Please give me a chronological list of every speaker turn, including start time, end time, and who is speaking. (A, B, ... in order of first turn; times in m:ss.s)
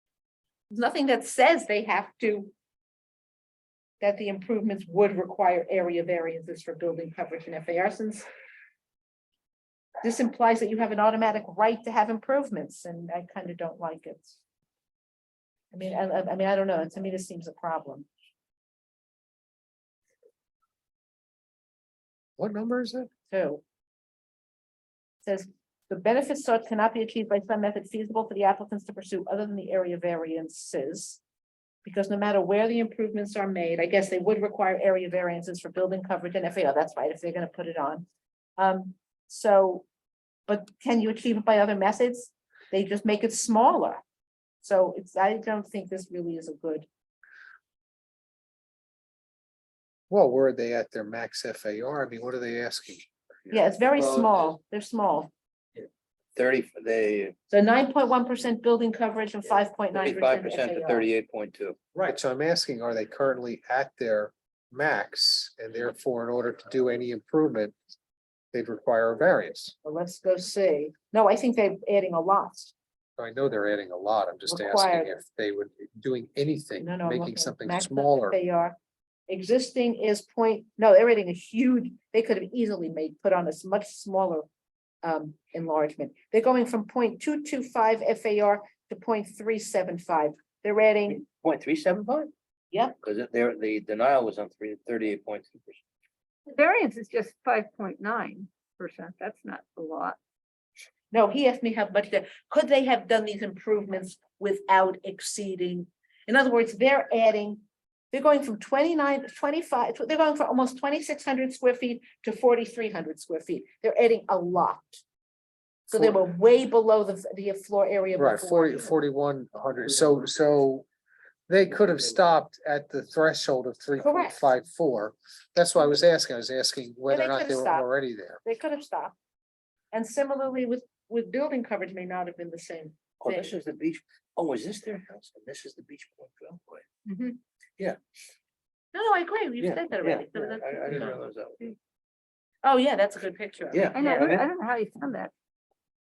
0:00.7-0:02.5 A
0:04.0-0:08.3 A
0:10.0-0:14.4 A
0:15.7-0:18.1 A
0:22.4-0:23.1 B
0:23.3-0:23.6 A
0:25.2-0:31.2 A
0:31.8-0:38.0 A
0:38.6-0:39.8 A
0:40.5-0:44.0 A
0:44.6-0:46.9 A
0:50.1-0:53.1 B
0:53.5-0:55.3 A
0:54.0-0:54.2 C
0:56.4-0:57.3 C
0:57.5-1:01.1 A
0:59.9-1:01.8 C
1:01.9-1:07.8 B
1:08.5-1:09.8 B
1:09.8-1:12.7 A
1:13.2-1:18.4 B
1:14.5-1:15.1 A
1:16.8-1:18.8 A
1:19.3-1:24.5 A
1:25.0-1:31.2 A
1:31.1-1:32.3 C
1:33.0-1:35.8 C
1:36.5-1:40.2 D
1:41.1-1:55.0 A
1:55.9-1:59.0 A
1:55.9-1:56.2 B
1:58.2-2:00.9 B
2:01.5-2:08.4 B
2:04.0-2:04.4 A
2:07.1-2:07.9 A
2:08.4-2:09.1 A
2:09.9-2:13.5 A
2:13.2-2:16.8 C
2:17.0-2:17.4 A
2:18.9-2:21.2 A
2:19.6-2:21.8 C
2:22.6-2:24.2 A
2:23.7-2:24.5 C
2:23.9-2:25.3 D